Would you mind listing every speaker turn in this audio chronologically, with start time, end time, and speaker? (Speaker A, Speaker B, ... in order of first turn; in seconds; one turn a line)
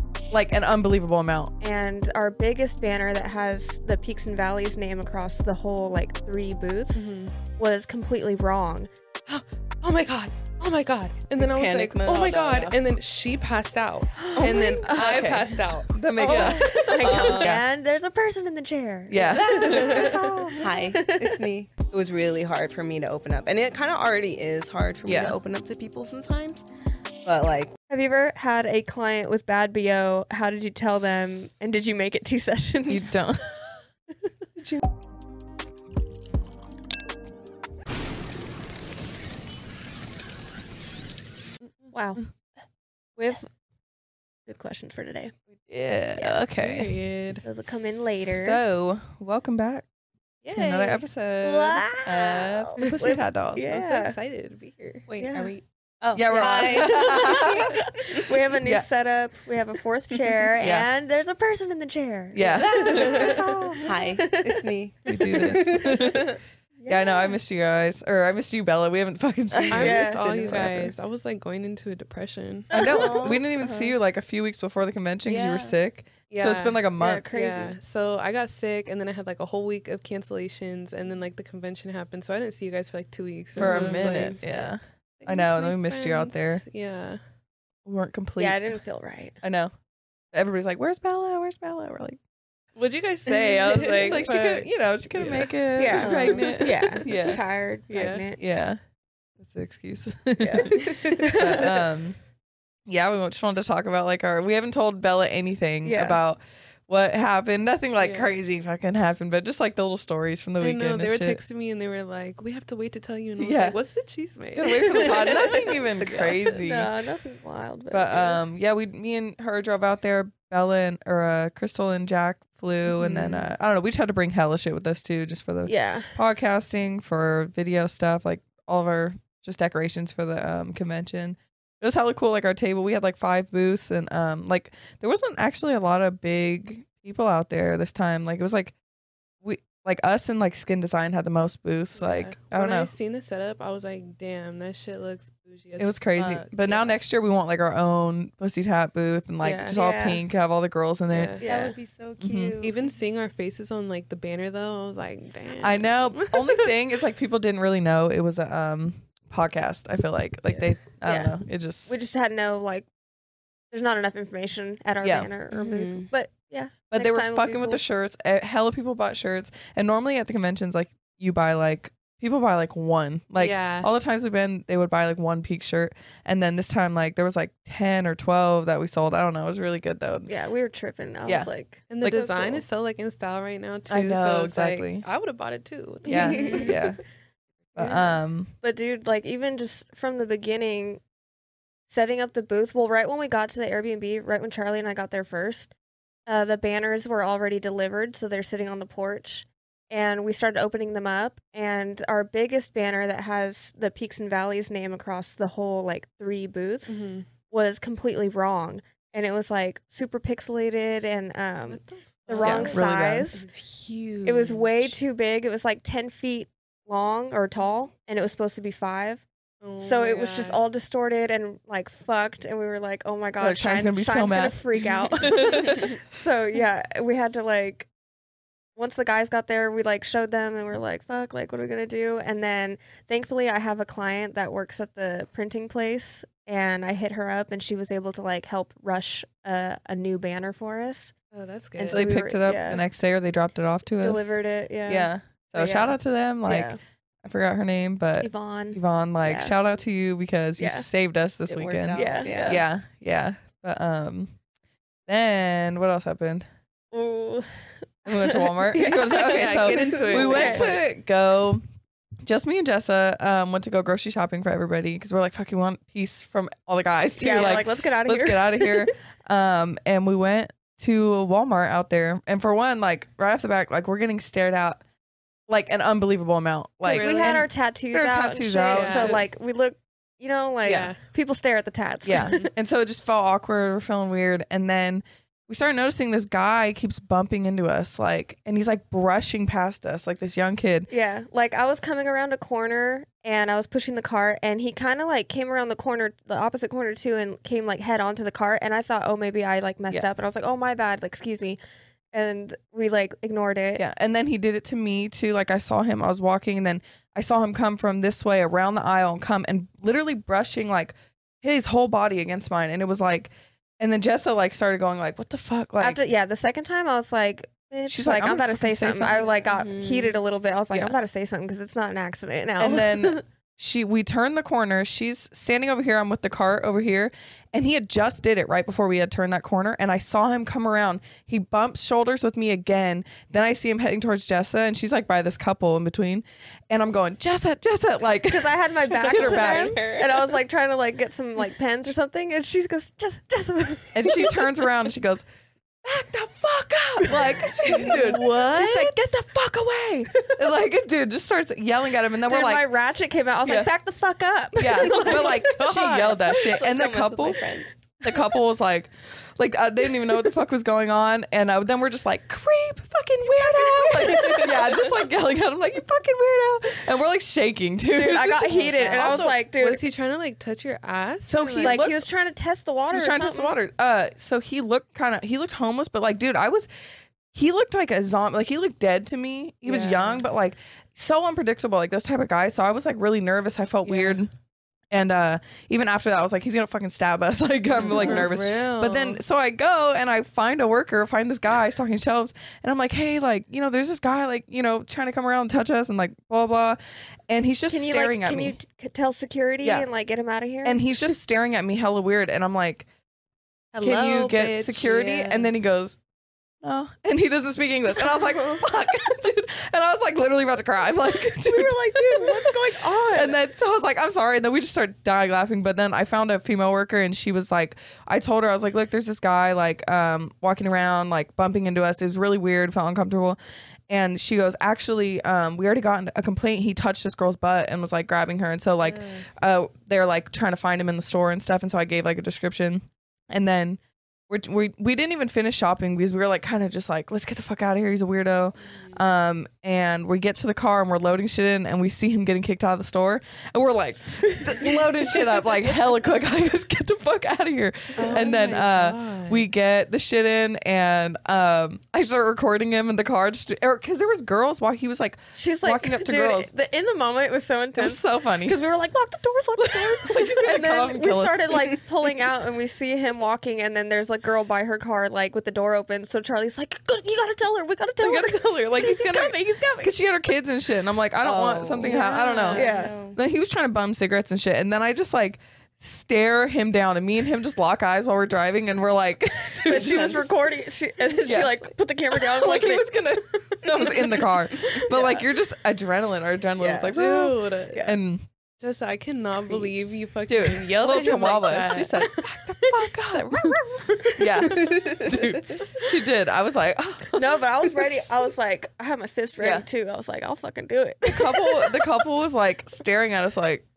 Speaker A: 0.3-1.5
Speaker B: 1.6-8.9
Speaker C: 7.0-7.3
Speaker D: 9.3-16.6
Speaker C: 11.4-12.8
Speaker B: 14.2-15.5
Speaker A: 14.4-17.6
Speaker B: 16.1-21.4
Speaker C: 17.0-17.6
Speaker A: 19.1-20.7
Speaker C: 19.4-26.6
Speaker A: 25.0-25.4
Speaker C: 27.2-27.7
Speaker B: 27.9-33.2
Speaker A: 32.9-33.4
Speaker C: 34.6-34.8
Speaker B: 41.9-42.2
Speaker B: 43.2-43.5
Speaker B: 44.5-45.3
Speaker A: 45.7-47.0
Speaker B: 46.2-46.4
Speaker D: 46.6-47.4
Speaker B: 47.4-48.6
Speaker A: 48.3-49.8
Speaker A: 50.4-53.7
Speaker D: 50.6-51.0
Speaker B: 51.4-54.2
Speaker D: 53.6-55.0
Speaker C: 55.1-58.2
Speaker B: 55.2-55.5
Speaker A: 56.1-57.8
Speaker B: 56.3-64.7
Speaker A: 60.6-60.9
Speaker A: 62.3-63.9
Speaker C: 62.6-67.2
Speaker A: 65.1-70.9
Speaker D: 69.7-72.7
Speaker B: 69.7-70.7
Speaker B: 72.7-73.2
Speaker C: 72.7-73.9
Speaker A: 72.7-77.2
Speaker C: 75.2-75.7
Speaker D: 76.3-84.5
Speaker B: 77.0-77.8
Speaker C: 83.5-84.4
Speaker A: 83.6-86.6
Speaker D: 85.2-87.2
Speaker A: 87.8-88.6
Speaker B: 88.4-89.4
Speaker A: 89.4-89.7
Speaker A: 90.3-92.2
Speaker D: 92.8-94.7
Speaker A: 93.9-97.4
Speaker B: 95.8-98.4
Speaker C: 95.9-97.2
Speaker D: 97.9-98.2
Speaker A: 98.4-98.8
Speaker A: 99.4-102.2
Speaker D: 100.4-101.8
Speaker C: 100.7-101.6
Speaker A: 102.9-111.4
Speaker B: 105.8-106.2
Speaker D: 108.0-108.3
Speaker D: 110.6-116.4
Speaker A: 113.4-113.8
Speaker A: 114.5-116.9
Speaker B: 115.1-118.4
Speaker A: 117.9-138.7
Speaker D: 123.0-123.3
Speaker B: 125.6-126.1
Speaker A: 139.4-142.9
Speaker D: 141.9-146.9
Speaker A: 145.8-151.4
Speaker C: 149.4-149.8
Speaker B: 149.7-150.2
Speaker D: 151.1-151.4
Speaker B: 151.4-151.8
Speaker C: 151.4-152.9
Speaker A: 152.2-152.6
Speaker D: 152.6-156.7
Speaker A: 155.6-161.9
Speaker B: 161.0-161.3
Speaker B: 161.9-162.9
Speaker B: 163.7-167.8
Speaker A: 165.0-165.3
Speaker C: 165.5-166.1
Speaker A: 166.9-180.3
Speaker D: 173.3-173.9
Speaker B: 180.3-182.6
Speaker D: 181.9-186.8
Speaker A: 183.9-185.0
Speaker B: 186.1-186.8
Speaker A: 186.1-187.0
Speaker A: 187.7-188.5
Speaker B: 187.8-188.0
Speaker B: 188.6-191.0
Speaker B: 191.9-195.7
Speaker B: 196.3-213.4
Speaker D: 206.8-207.3
Speaker D: 211.7-213.6
Speaker A: 212.4-213.3
Speaker C: 213.5-214.9
Speaker B: 214.2-219.2
Speaker D: 219.6-220.6
Speaker B: 219.8-227.9
Speaker A: 223.4-226.0
Speaker B: 228.8-241.1
Speaker D: 241.3-242.1
Speaker B: 241.8-242.8
Speaker A: 241.9-244.3
Speaker B: 244.0-246.8
Speaker A: 244.9-254.3
Speaker B: 248.2-249.5
Speaker B: 250.6-250.9
Speaker C: 251.5-252.6
Speaker B: 251.9-252.6
Speaker A: 255.1-256.5
Speaker B: 256.9-257.5
Speaker A: 258.1-261.6
Speaker B: 258.1-260.8
Speaker D: 258.8-260.8
Speaker A: 262.2-274.8
Speaker B: 267.2-268.9
Speaker A: 275.5-279.2
Speaker B: 276.8-282.4
Speaker D: 276.9-277.5
Speaker D: 278.7-279.2
Speaker D: 280.6-280.9
Speaker A: 282.0-290.9
Speaker B: 290.9-301.6
Speaker B: 302.1-303.8
Speaker A: 303.8-316.0
Speaker B: 315.8-323.2
Speaker A: 317.9-319.2
Speaker C: 319.4-320.1
Speaker A: 322.6-339.8
Speaker B: 338.2-344.3
Speaker C: 339.0-340.3
Speaker A: 343.9-345.2
Speaker A: 345.8-352.7
Speaker B: 347.0-348.8
Speaker C: 347.8-348.7
Speaker B: 352.2-356.0
Speaker A: 354.6-369.3
Speaker C: 355.3-357.7
Speaker C: 363.9-364.9
Speaker B: 367.9-369.8
Speaker D: 368.6-371.8
Speaker A: 371.2-372.0
Speaker B: 371.5-373.5
Speaker A: 372.9-376.7
Speaker A: 377.3-384.3
Speaker D: 379.6-380.2
Speaker D: 383.9-384.2
Speaker A: 384.9-396.8
Speaker D: 387.7-389.2
Speaker A: 397.3-398.6
Speaker B: 397.7-400.9
Speaker A: 400.6-402.9
Speaker D: 403.7-405.0
Speaker A: 403.8-406.0
Speaker C: 404.8-405.5
Speaker A: 406.6-412.6
Speaker B: 411.3-413.4
Speaker A: 413.1-423.4
Speaker A: 423.9-456.5
Speaker B: 448.0-448.3
Speaker D: 448.0-449.4
Speaker B: 455.3-469.9
Speaker A: 457.8-458.6
Speaker A: 459.6-461.7
Speaker A: 468.0-480.3
Speaker C: 471.2-473.2
Speaker D: 471.8-472.7
Speaker B: 472.5-472.9
Speaker B: 479.6-483.1
Speaker C: 479.7-480.3
Speaker A: 481.2-481.6
Speaker A: 482.1-488.2
Speaker C: 484.8-485.1
Speaker C: 486.6-486.9
Speaker D: 486.9-487.9
Speaker D: 488.6-495.3
Speaker A: 490.3-493.6
Speaker A: 494.1-498.1
Speaker C: 494.5-495.1
Speaker B: 497.1-502.0
Speaker A: 499.4-499.6
Speaker A: 501.0-503.6